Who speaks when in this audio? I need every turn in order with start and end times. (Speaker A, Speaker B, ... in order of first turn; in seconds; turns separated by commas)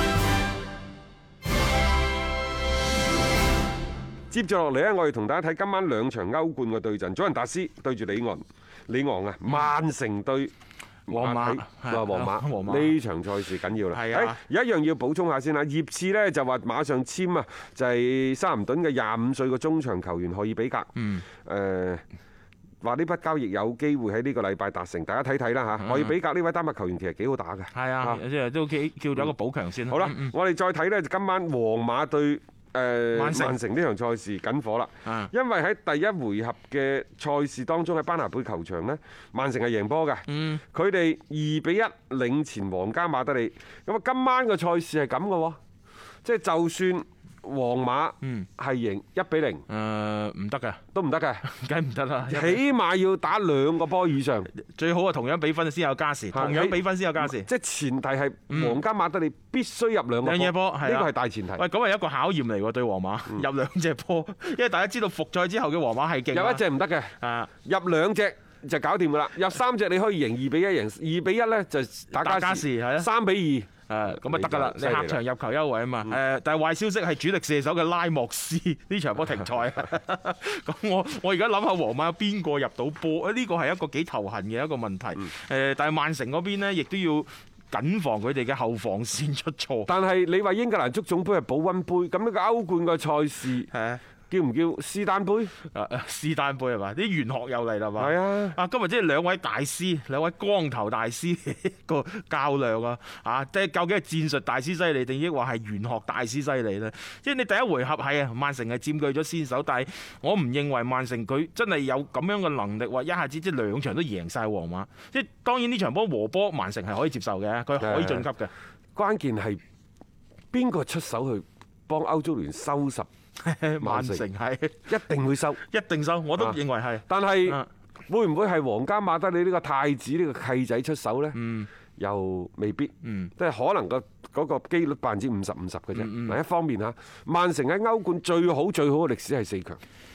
Speaker A: 4.3-10.5, Speaker A: 11.1-22.0, Speaker B: 11.1-13.0, Speaker B: 13.9-14.4, Speaker B: 21.0-21.2, Speaker A: 22.8-28.2, Speaker B: 25.8-26.1, Speaker B: 27.7-30.3, Speaker A: 29.9-45.6, Speaker B: 33.1-33.6, Speaker B: 40.3-40.6, Speaker A: 46.2-49.7, Speaker B: 48.2-48.5, Speaker B: 49.7-50.8, Speaker A: 50.9-51.4, Speaker B: 51.4-52.6, Speaker A: 52.3-54.5, Speaker B: 54.5-57.5, Speaker A: 56.3-61.6, Speaker B: 58.5-58.8, Speaker B: 60.2-66.6, Speaker A: 66.3-75.2, Speaker B: 67.2-67.5, Speaker B: 72.1-73.1, Speaker B: 73.9-89.9, Speaker A: 89.9-93.7, Speaker B: 93.7-94.0, Speaker A: 94.3-95.5, Speaker B: 95.7-118.5, Speaker A: 98.0-98.6, Speaker A: 117.8-118.3, Speaker A: 118.9-119.6, Speaker A: 120.5-123.1, Speaker B: 123.4-124.9, Speaker A: 123.8-124.2, Speaker A: 124.9-125.6, Speaker B: 125.6-127.7, Speaker A: 126.4-131.4, Speaker B: 131.3-131.7, Speaker A: 131.9-139.8, Speaker B: 133.0-133.3, Speaker B: 135.9-136.4